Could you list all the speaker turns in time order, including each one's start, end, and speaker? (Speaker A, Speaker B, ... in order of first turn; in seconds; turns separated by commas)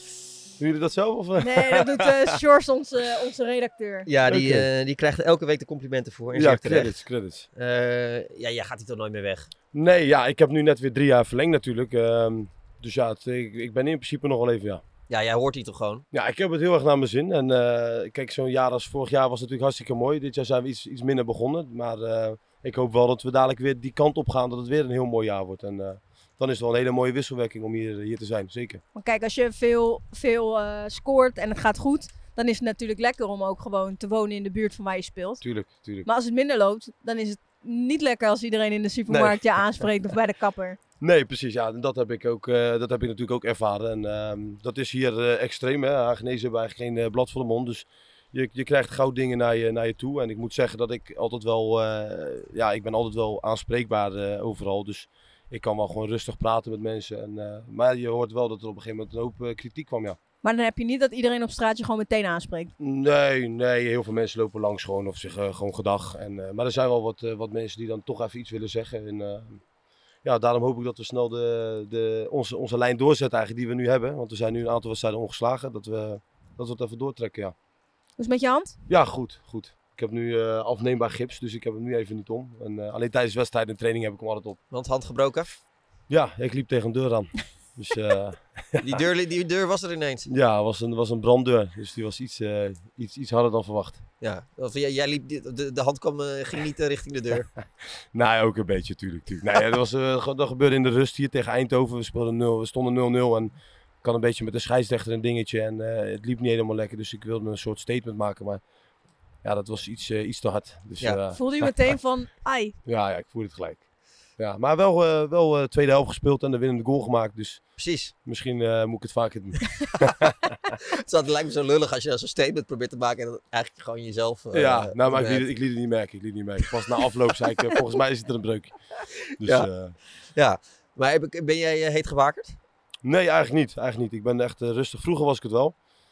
Speaker A: 0.6-2.4, Speaker B: 1.4-4.1, Speaker C: 4.1-7.0, Speaker A: 4.3-4.7, Speaker A: 6.3-7.5, Speaker C: 7.5-9.5, Speaker A: 9.7-14.8, Speaker C: 15.1-16.0, Speaker A: 16.1-28.8, Speaker B: 28.9-35.4, Speaker A: 35.4-36.1, Speaker B: 36.0-40.8, Speaker A: 39.1-39.9, Speaker A: 41.0-60.2, Speaker B: 60.4-62.7, Speaker A: 62.8-69.6, Speaker A: 70.2-77.5, Speaker B: 78.2-78.8, Speaker A: 78.9-84.6, Speaker C: 84.7-85.6, Speaker A: 86.1-89.0, Speaker C: 88.8-90.3, Speaker A: 90.3-94.0, Speaker C: 94.2-97.5, Speaker A: 98.1-108.6, Speaker A: 109.4-111.7, Speaker B: 111.3-112.7, Speaker A: 112.8-113.8, Speaker A: 114.4-120.5, Speaker C: 117.8-118.1, Speaker C: 120.8-125.4, Speaker A: 124.5-128.7, Speaker A: 129.4-129.9, Speaker C: 129.4-129.7, Speaker C: 130.3-132.6, Speaker A: 133.0-135.7